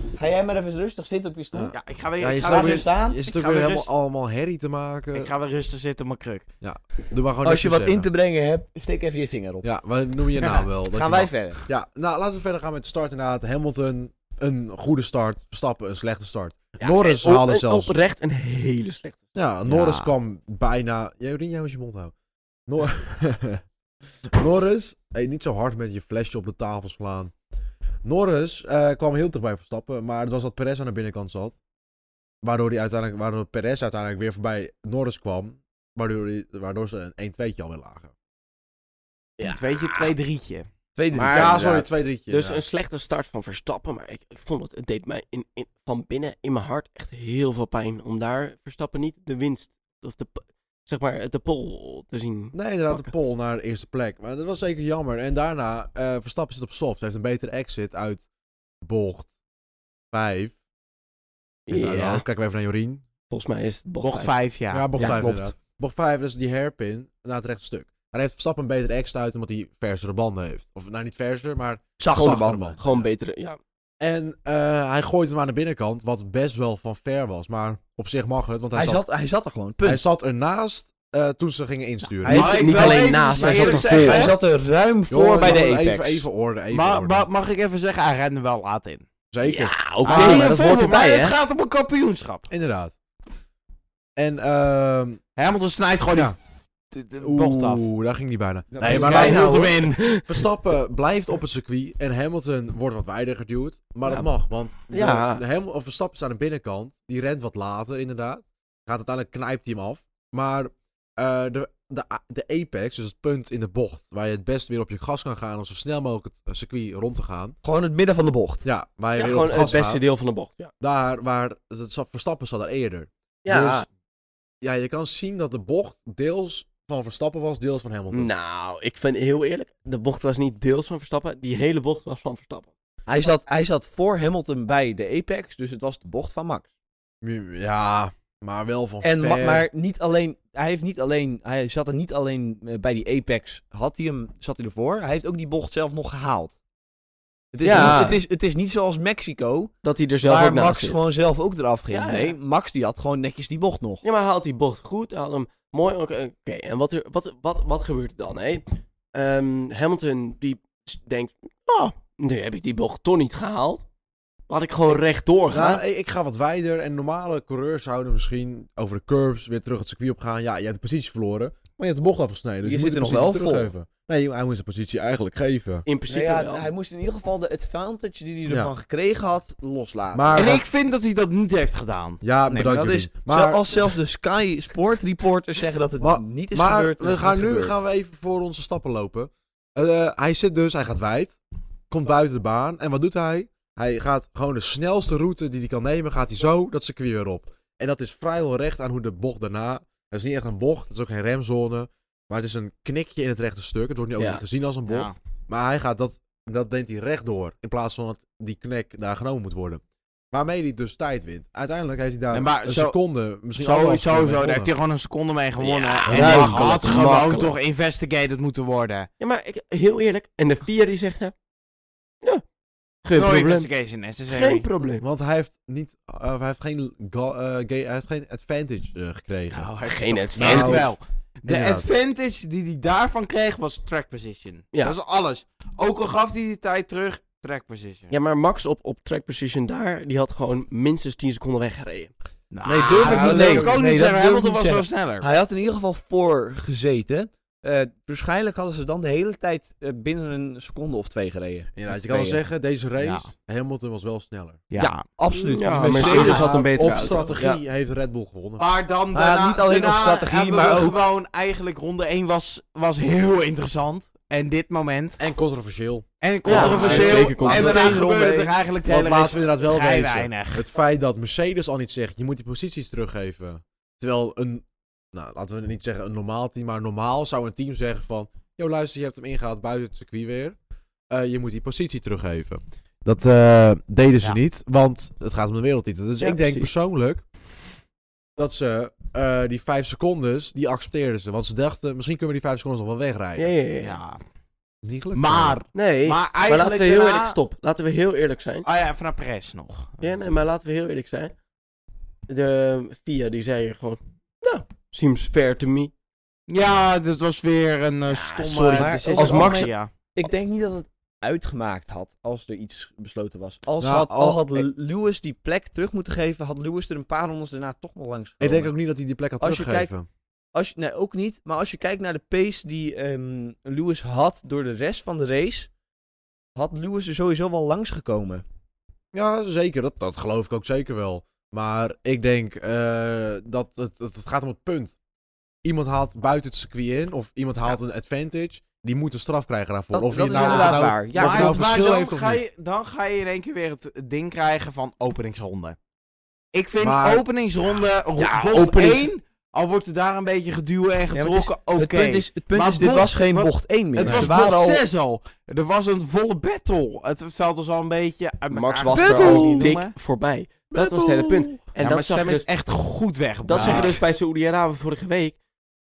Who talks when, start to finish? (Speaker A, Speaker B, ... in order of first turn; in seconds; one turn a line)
Speaker A: 0.1-1.8
Speaker B: 1.5-5.3
Speaker C: 1.7-3.9
Speaker A: 2.4-3.2
Speaker C: 5.1-6.5
Speaker B: 6.6-8.1
Speaker A: 7.4-9.7
Speaker B: 9.6-17.9
Speaker C: 10.4-10.7
Speaker A: 10.9-11.6
Speaker D: 16.8-19.2
Speaker B: 19.4-22.1
Speaker C: 19.7-20.1
Speaker B: 22.7-23.6
Speaker B: 24.3-27.3
Speaker B: 28.0-31.6
Speaker B: 32.4-38.1
Speaker D: 39.4-40.1
Speaker C: 39.4-40.7
Speaker A: 41.0-41.9
Speaker D: 41.1-53.1
Speaker B: 41.3-42.6
Speaker B: 52.5-58.2
Speaker B: 58.8-59.3
Speaker B: 60.1-60.5
Speaker D: 61.7-62.2
Speaker B: 61.7-63.0
Speaker D: 63.3-64.3
Speaker C: 64.0-64.9
Speaker B: 64.7-73.1
Speaker A: 65.0-65.5
Speaker A: 72.0-72.8
Speaker D: 72.2-73.6
Speaker B: 74.0-79.0
Speaker A: 78.7-80.0
Speaker B: 79.8-82.6
Speaker A: 82.2-86.3
Speaker C: 82.3-84.4
Speaker D: 82.3-84.3
Speaker B: 85.1-87.3
Speaker C: 86.7-89.1
Speaker B: 89.3-90.5
Speaker D: 89.4-91.4
Speaker C: 90.0-92.5
Speaker B: 92.5-93.0
Speaker B: 94.2-95.2
Speaker C: 95.4-96.4
Speaker B: 96.1-96.4
Speaker C: 96.9-97.8
Speaker B: 97.2-99.6
Speaker A: 98.7-99.6
Speaker C: 98.9-100.0
Speaker D: 99.0-100.4
Speaker B: 100.2-117.6
Speaker D: 104.0-104.3
Speaker D: 104.9-105.4
Speaker A: 117.6-118.7
Speaker B: 118.7-120.0
Speaker D: 119.2-120.7
Speaker B: 120.8-123.9
Speaker D: 123.5-123.9
Speaker B: 124.6-128.3
Speaker D: 128.1-132.7
Speaker A: 133.1-136.7
Speaker B: 137.2-139.7
Speaker A: 139.0-146.5
Speaker A: 147.5-154.0
Speaker D: 147.6-148.2
Speaker B: 147.7-148.1
Speaker D: 149.8-151.0
Speaker D: 151.9-152.4
Speaker D: 154.0-163.8
Speaker D: 164.5-165.8
Speaker B: 165.5-175.9
Speaker A: 172.6-173.7
Speaker D: 175.9-176.7
Speaker A: 176.1-180.6
Speaker B: 180.1-180.6
Speaker C: 180.3-182.2
Speaker B: 182.2-183.6
Speaker A: 182.5-187.8
Speaker B: 186.0-191.4
Speaker B: 191.9-214.7
Speaker D: 204.2-204.4
Speaker C: 204.9-205.2
Speaker C: 212.3-213.0
Speaker C: 213.6-219.1
Speaker D: 215.6-217.6
Speaker B: 216.1-216.8
Speaker A: 216.1-216.6
Speaker D: 219.2-221.3
Speaker D: 223.0-223.7
Speaker C: 223.1-224.7
Speaker D: 224.3-225.1
Speaker B: 225.0-229.7
Speaker C: 229.5-238.1
Speaker D: 229.9-230.9
Speaker B: 230.3-230.9
Speaker B: 231.5-231.9
Speaker D: 238.1-242.1
Speaker C: 242.5-245.3
Speaker A: 242.7-252.4
Speaker B: 242.8-243.8
Speaker B: 251.7-254.7
Speaker C: 253.0-253.3
Speaker C: 254.7-255.1
Speaker A: 254.8-256.7
Speaker D: 255.4-257.6
Speaker C: 255.7-256.7
Speaker B: 256.1-258.6
Speaker C: 258.6-265.2
Speaker A: 259.1-261.0
Speaker B: 265.2-267.3
Speaker C: 266.2-270.6
Speaker D: 266.4-268.0
Speaker A: 266.5-268.5
Speaker B: 268.9-280.6
Speaker B: 281.1-287.2
Speaker D: 286.2-286.7
Speaker B: 288.4-293.5
Speaker D: 293.4-294.0
Speaker C: 293.8-294.2
Speaker B: 294.8-295.6
Speaker C: 295.1-297.4
Speaker D: 295.7-298.7
Speaker C: 298.6-300.3
Speaker D: 300.0-301.3
Speaker D: 302.3-305.9
Speaker C: 306.5-309.9
Speaker D: 308.1-309.7
Speaker A: 308.7-318.7
Speaker B: 313.8-314.7
Speaker B: 318.4-320.1
Speaker A: 319.4-319.9
Speaker A: 320.5-325.7
Speaker A: 326.6-328.4
Speaker B: 329.1-335.0
Speaker B: 335.6-342.4
Speaker A: 339.9-341.9
Speaker C: 340.3-345.8
Speaker C: 346.5-359.9
Speaker B: 346.8-347.2
Speaker D: 348.2-349.1
Speaker A: 351.1-354.8
Speaker B: 354.0-354.4
Speaker D: 358.5-362.5
Speaker A: 358.9-359.8
Speaker C: 360.8-364.0
Speaker D: 363.4-365.4
Speaker B: 363.6-363.9